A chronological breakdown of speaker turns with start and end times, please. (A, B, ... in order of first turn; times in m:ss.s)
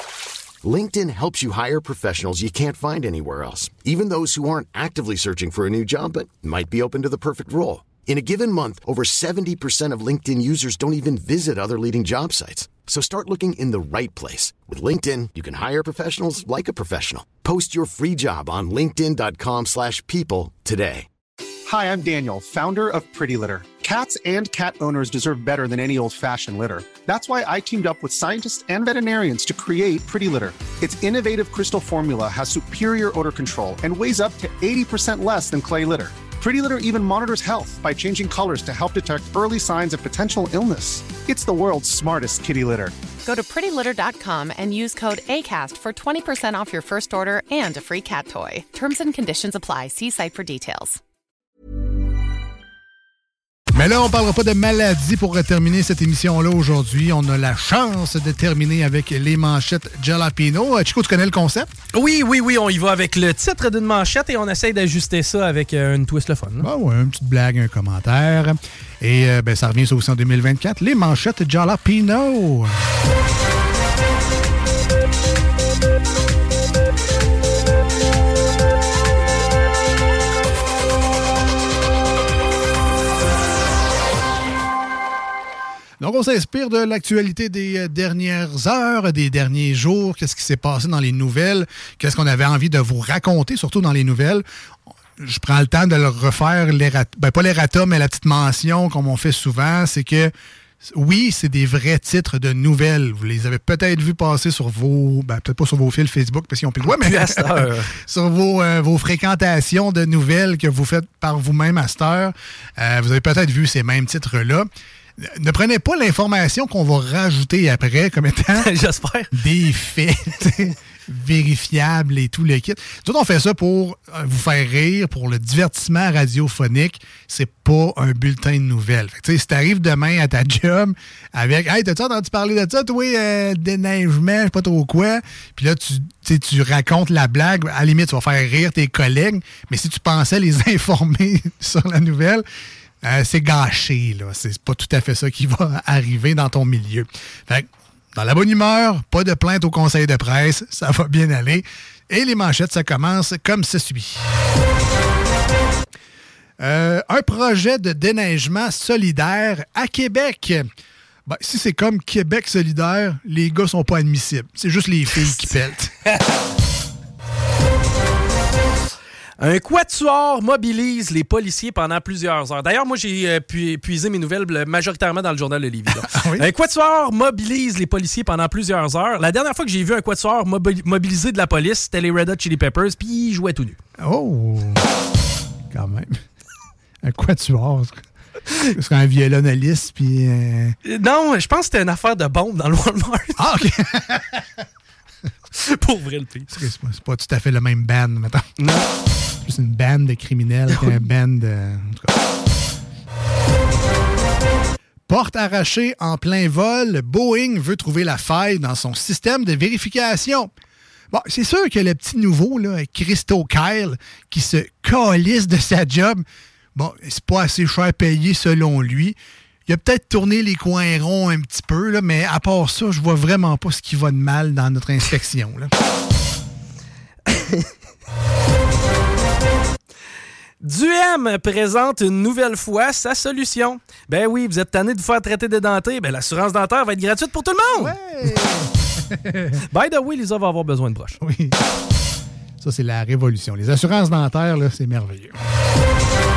0:00.6-0:21.1 A
0:21.7-0:43.0 B
0:43.2-0:51.0 C
0:53.7-1:01.7 D
1:01.9-1:06.7 E
1:06.6-1:12.8 D
1:26.0-1:34.4 D
1:35.2-1:40.3 D
1:40.8-1:54.7 D
1:46.8-1:47.9 E
1:55.2-1:58.7 D
1:58.5-1:59.3 E
1:59.3-2:22.4 D
2:23.0-2:34.3 D
2:36.6-2:40.6 D
2:41.2-2:45.9 D
2:49.4-3:03.8 E
2:55.9-2:56.5 D
3:04.0-3:04.8 D
3:05.7-3:06.2 D
3:07.0-3:08.0 D
3:08.6-3:10.8 D
3:10.8-3:13.5 E
3:13.4-3:14.4 D
3:15.5-3:16.5 E
3:16.5-3:18.5 D
3:18.6-3:18.9 E
3:19.4-3:22.1 D
3:20.7-3:21.0 E
3:25.1-3:30.5 D
3:31.1-3:36.2 D
3:36.7-3:45.7 D
3:50.6-3:58.0 E
3:57.7-3:59.6 D
3:59.6-4:01.2 E
4:01.2-4:01.7 D
4:02.6-4:05.4 D